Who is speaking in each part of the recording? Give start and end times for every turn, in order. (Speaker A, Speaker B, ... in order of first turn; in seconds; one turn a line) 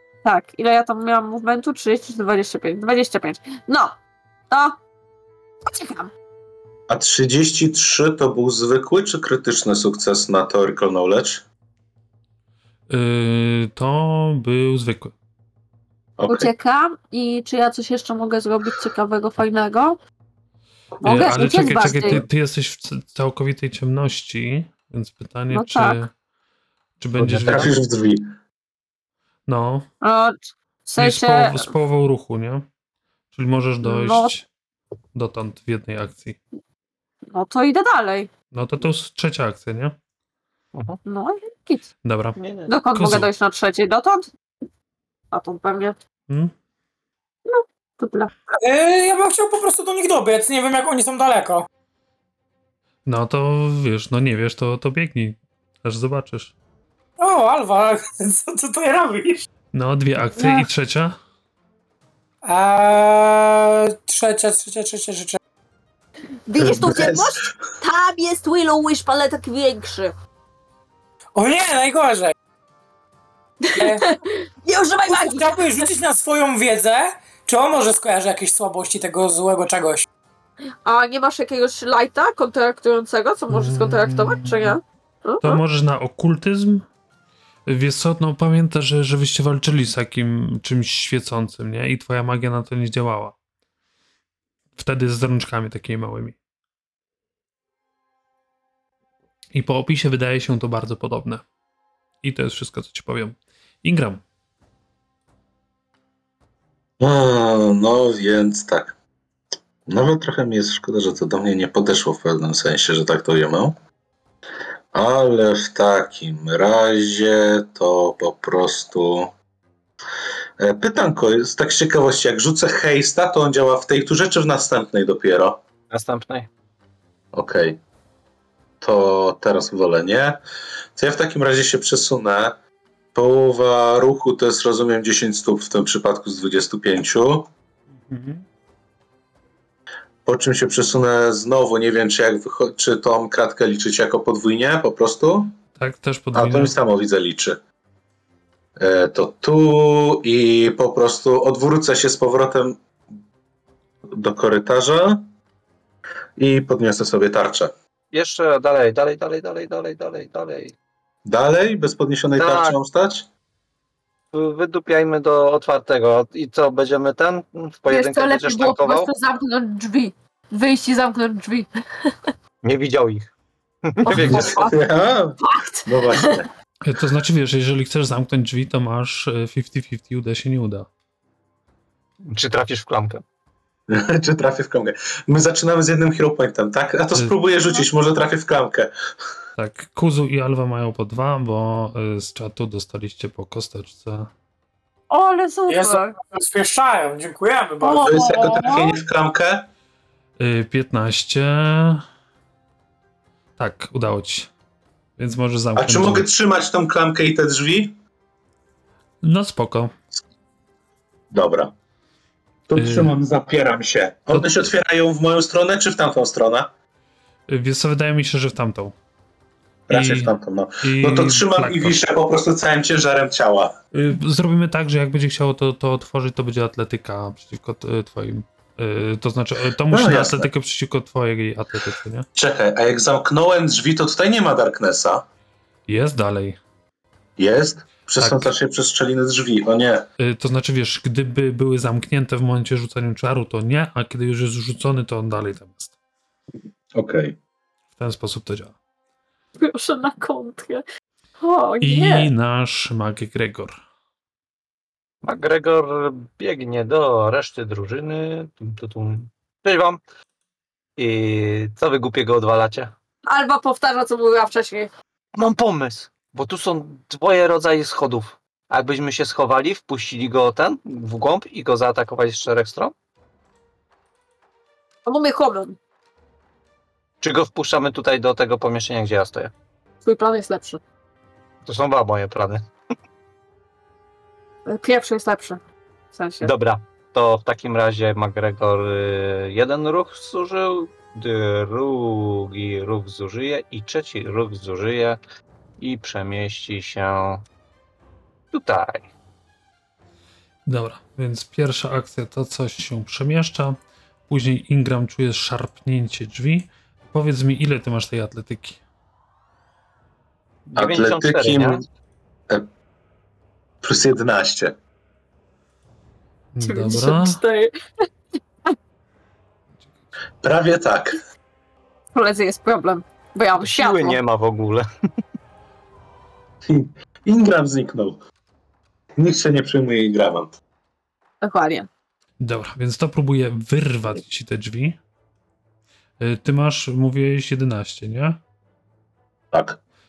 Speaker A: 0.2-4.0
Speaker A: 4.5-4.8
Speaker A: 5.7-6.1
Speaker B: 6.9-11.4
Speaker C: 12.9-15.1
Speaker B: 16.2-16.5
Speaker A: 16.3-20.0
Speaker A: 21.0-22.2
Speaker C: 21.0-26.1
Speaker A: 25.5-26.0
Speaker C: 27.0-27.7
Speaker D: 27.2-27.8
Speaker B: 27.4-28.3
Speaker C: 29.5-29.9
Speaker A: 30.0-31.7
Speaker C: 31.0-32.6
Speaker C: 33.3-34.5
Speaker A: 33.8-34.4
Speaker C: 35.1-36.4
Speaker A: 37.3-38.3
Speaker C: 38.5-39.9
Speaker D: 40.7-41.0
Speaker A: 41.0-41.9
Speaker C: 42.0-42.4
Speaker D: 42.4-42.7
Speaker A: 42.7-44.3
Speaker C: 42.9-43.3
Speaker A: 45.3-46.0
Speaker A: 47.5-48.3
Speaker E: 48.6-51.6
Speaker C: 53.0-56.5
Speaker E: 57.2-59.5
Speaker C: 59.7-61.1
Speaker A: 60.3-60.7
Speaker E: 62.4-65.4
Speaker A: 66.5-70.1
Speaker B: 66.6-67.3
Speaker E: 71.3-72.3
Speaker A: 73.6-75.8
Speaker E: 73.8-74.1
Speaker E: 75.1-80.0
Speaker A: 80.8-85.6
Speaker C: 83.5-84.8
Speaker C: 85.4-86.8
Speaker C: 87.7-93.3
Speaker C: 94.8-96.3
Speaker C: 99.5-101.4
Speaker C: 102.2-104.2
Speaker B: 107.0-109.0
Speaker B: 109.9-113.8
Speaker B: 114.9-119.3
Speaker B: 120.6-125.6
Speaker D: 125.9-126.5
Speaker B: 127.3-127.8
Speaker B: 128.8-130.4
Speaker B: 130.9-132.6
Speaker B: 133.1-137.5
Speaker C: 138.0-138.4
Speaker B: 140.2-145.5
Speaker C: 145.8-146.7
Speaker B: 146.3-147.6
Speaker B: 148.8-152.8
Speaker B: 154.1-155.3
Speaker B: 156.4-157.7
Speaker D: 158.1-160.7
Speaker B: 161.2-163.3
Speaker D: 162.4-162.8
Speaker D: 164.3-169.1
Speaker A: 167.9-172.2
Speaker D: 172.6-173.3
Speaker D: 173.8-174.7
Speaker A: 174.1-174.8
Speaker B: 174.1-176.5
Speaker A: 175.4-176.4
Speaker C: 176.8-180.9
Speaker D: 182.2-183.2
Speaker B: 183.9-188.9
Speaker C: 189.6-194.3
Speaker A: 195.1-196.2
Speaker E: 195.7-198.1
Speaker A: 197.8-198.9
Speaker B: 198.1-199.7
Speaker C: 200.4-202.0
Speaker C: 203.6-204.5
Speaker C: 205.2-206.3
Speaker B: 205.8-207.9
Speaker C: 209.2-209.9
Speaker B: 211.3-211.7
Speaker B: 212.7-216.7
Speaker C: 212.8-213.1
Speaker C: 214.3-214.7
Speaker C: 217.5-218.9
Speaker B: 219.9-223.8
Speaker C: 219.9-222.0
Speaker C: 223.9-232.3
Speaker B: 229.9-230.5
Speaker B: 232.3-235.2
Speaker C: 235.9-236.6
Speaker B: 237.4-240.1
Speaker C: 238.2-238.5
Speaker C: 240.2-245.9
Speaker B: 246.9-247.3
Speaker C: 247.9-248.7
Speaker A: 249.6-250.8
Speaker A: 251.4-252.3
Speaker C: 251.8-253.7
Speaker D: 255.2-260.0
Speaker D: 261.0-262.9
Speaker A: 263.3-264.9
Speaker D: 265.4-272.9
Speaker A: 275.1-275.8
Speaker D: 277.2-279.5
Speaker A: 280.0-280.8
Speaker D: 281.6-282.6
Speaker A: 284.6-285.6
Speaker A: 286.1-286.5
Speaker D: 286.4-295.2
Speaker D: 295.8-297.4
Speaker D: 298.5-299.1
Speaker C: 300.7-303.8
Speaker C: 304.3-308.8
Speaker D: 310.7-311.8
Speaker B: 310.8-311.8
Speaker B: 313.8-314.7
Speaker C: 316.5-317.4
Speaker A: 316.6-317.7
Speaker B: 320.4-321.2
Speaker A: 322.1-324.2
Speaker D: 323.6-324.9
Speaker B: 326.6-328.2
Speaker B: 329.2-330.6
Speaker A: 331.4-331.9
Speaker C: 332.4-335.0
Speaker C: 336.2-338.4
Speaker B: 339.5-339.8